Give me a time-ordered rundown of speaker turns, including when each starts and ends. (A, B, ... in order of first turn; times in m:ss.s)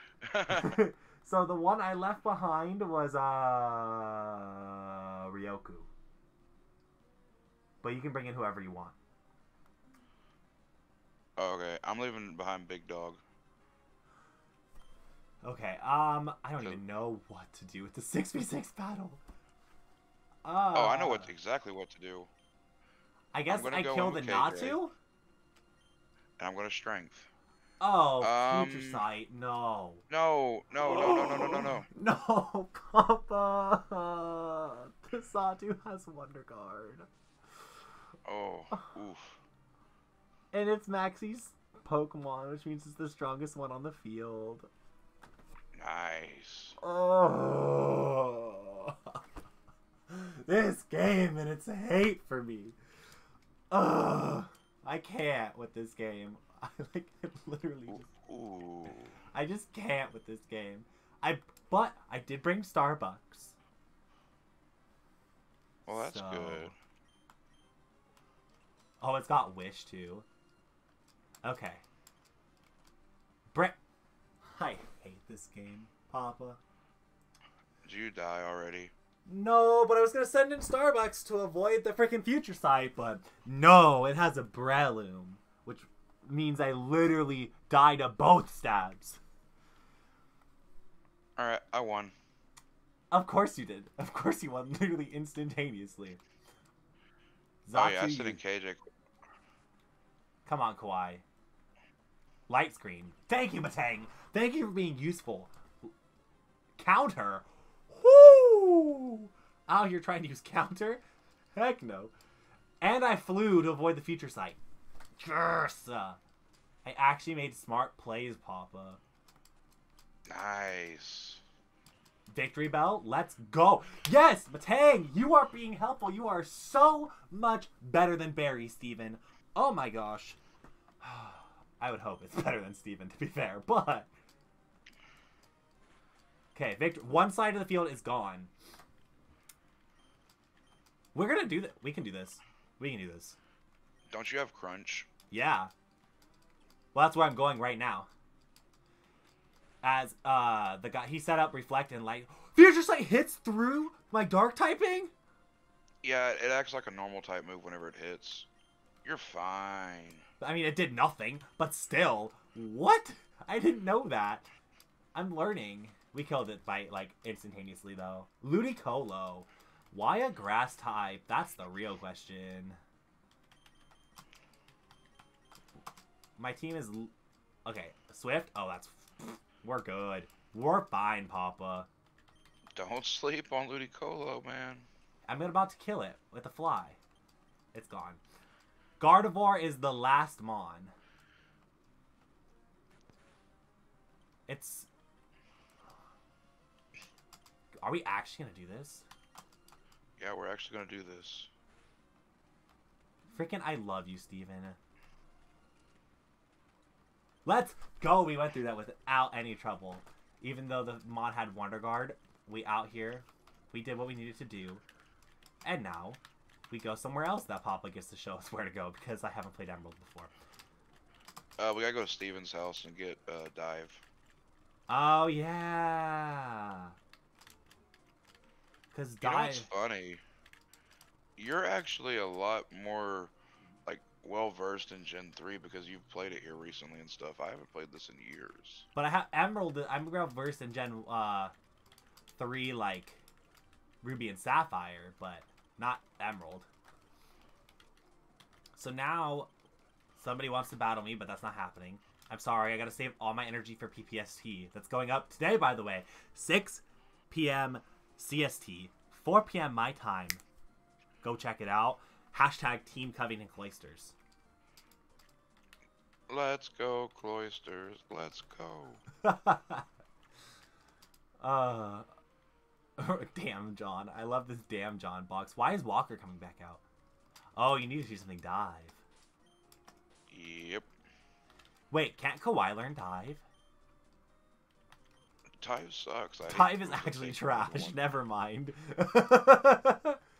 0:00.2-0:00.8 A
0:00.5-0:05.9 B
0:07.8-0:09.0 B
0:11.4-0:13.2 A
0:15.4-0:19.2 B
0:20.4-0:21.3 B
0:20.7-0:22.3 A
0:23.3-0:24.9 B
0:23.5-0:24.8 A
0:26.4-0:27.3 A
0:27.8-0:30.0 B
0:28.2-0:29.0 A
0:30.1-0:31.9 A
0:30.8-0:37.1 B
0:38.2-0:39.4 A
0:40.5-0:44.7 B
0:45.7-0:46.8 A
0:46.8-0:49.2 B
0:50.1-0:52.7 B
0:53.7-0:58.1 B
0:57.9-0:59.2 A
0:59.3-1:03.6 B
1:05.8-1:06.7 A
1:05.9-1:06.7 B
1:09.0-1:10.2 B
1:11.4-1:11.8 B
1:14.4-1:16.6 B
1:17.8-1:18.9 A
1:19.3-1:29.2 B
1:31.4-1:32.1 A
1:33.1-1:36.2 B
1:37.6-1:38.4 B
1:37.7-1:38.9 A
1:40.4-1:41.2 B
1:42.5-1:45.9 B
1:46.8-1:51.0 B
1:51.6-1:52.1 B
1:52.8-1:54.6 B
1:55.2-1:56.2 B
1:56.8-1:59.0 B
2:00.3-2:01.4 A
2:02.3-2:10.4 B
2:11.0-2:14.1 B
2:16.5-2:18.5 B
2:21.1-2:23.4 B
2:24.1-2:25.1 A
2:25.3-2:25.7 B
2:26.9-2:28.1 B
2:29.8-2:35.1 B
2:36.0-2:38.5 A
2:39.0-2:40.2 A
2:40.4-2:44.5 B
2:45.1-2:52.8 B
2:56.4-2:57.1 B
2:57.6-3:01.9 B
3:02.8-3:04.9 A
3:05.3-3:07.0 B
3:07.7-3:08.2 B
3:09.0-3:10.9 B
3:14.5-3:14.9 B
3:17.8-3:19.0 B
3:20.2-3:21.5 A
3:23.3-3:24.8 B
3:27.4-3:34.8 B
3:35.6-3:40.3 B
3:41.6-3:44.0 A
3:44.9-3:46.9 B
3:48.9-3:49.7 B
3:49.2-3:50.2 A
3:51.4-3:53.3 A
3:53.8-3:58.8 A
3:58.9-4:01.5 B
4:02.4-4:03.2 B
4:04.0-4:06.7 B
4:08.8-4:09.5 B
4:10.2-4:20.4 B
4:21.2-4:24.1 B
4:26.3-4:29.0 A
4:29.2-4:29.8 B
4:31.4-4:32.1 B
4:33.0-4:36.8 B
4:37.6-4:39.0 B
4:40.3-4:40.9 A
4:41.9-4:43.4 B
4:45.6-4:48.0 A
4:46.5-4:50.2 B